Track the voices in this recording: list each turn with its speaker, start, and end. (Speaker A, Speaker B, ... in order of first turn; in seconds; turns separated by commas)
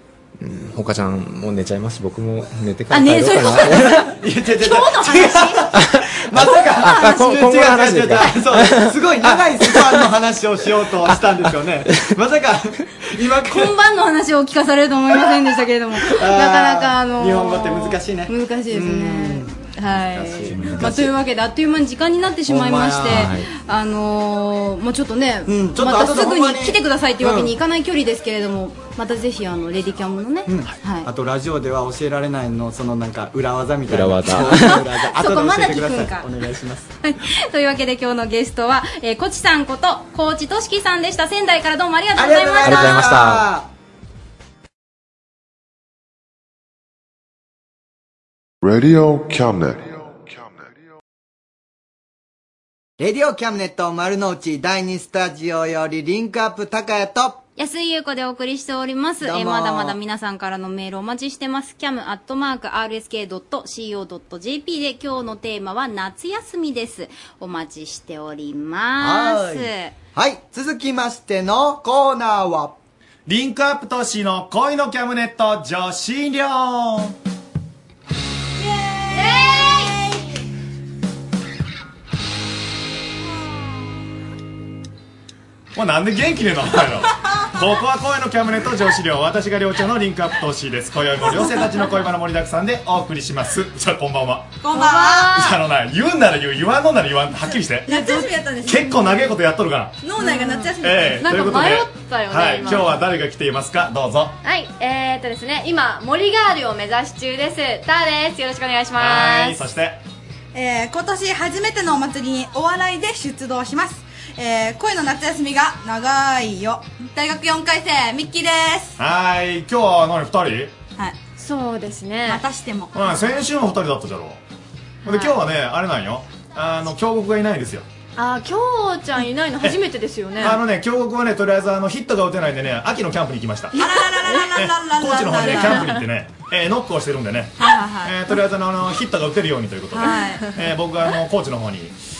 Speaker A: 0.4-4.1, Speaker B: 2.9-4.0, Speaker C: 4.2-13.7, Speaker B: 4.6-5.7, Speaker A: 6.4-10.1, Speaker B: 13.5-31.1, Speaker C: 16.0-19.5, Speaker C: 20.1-21.1, Speaker C: 22.5-23.3, Speaker A: 23.0-23.5, Speaker C: 25.5-27.5, Speaker C: 30.5-36.9, Speaker A: 33.9-34.8, Speaker B: 35.0-36.3, Speaker B: 37.0-43.1, Speaker C: 42.1-43.7, Speaker A: 42.6-43.5, Speaker D: 48.6-50.8, Speaker C: 53.0-57.4, Speaker B: 57.6-69.9, Speaker C: 59.2-60.0, Speaker C: 69.0-72.7, Speaker E: 73.2-77.1, Speaker F: 79.1-79.9, Speaker E: 85.7-94.6, Speaker F: 94.6-95.3, Speaker G: 94.7-95.6, Speaker E: 95.2-97.9, Speaker F: 97.8-99.1, Speaker E: 98.6-99.9, Speaker F: 100.0-101.3, Speaker G: 100.2-103.0, Speaker E: 100.8-104.3, Speaker G: 104.4-109.6, Speaker E: 108.9-110.0, Speaker F: 110.5-118.9, Speaker E: 119.0-120.7, Speaker G: 121.3-122.4, Speaker F: 122.2-123.0, Speaker E: 122.9-124.4, Speaker E: 125.0-127.8, Speaker G: 125.0-125.3, Speaker G: 128.2-130.6, Speaker E: 130.4-133.8, Speaker F: 133.7-136.0, Speaker E: 134.5-141.9, Speaker G: 135.5-135.8, Speaker F: 137.6-138.2, Speaker F: 139.9-140.5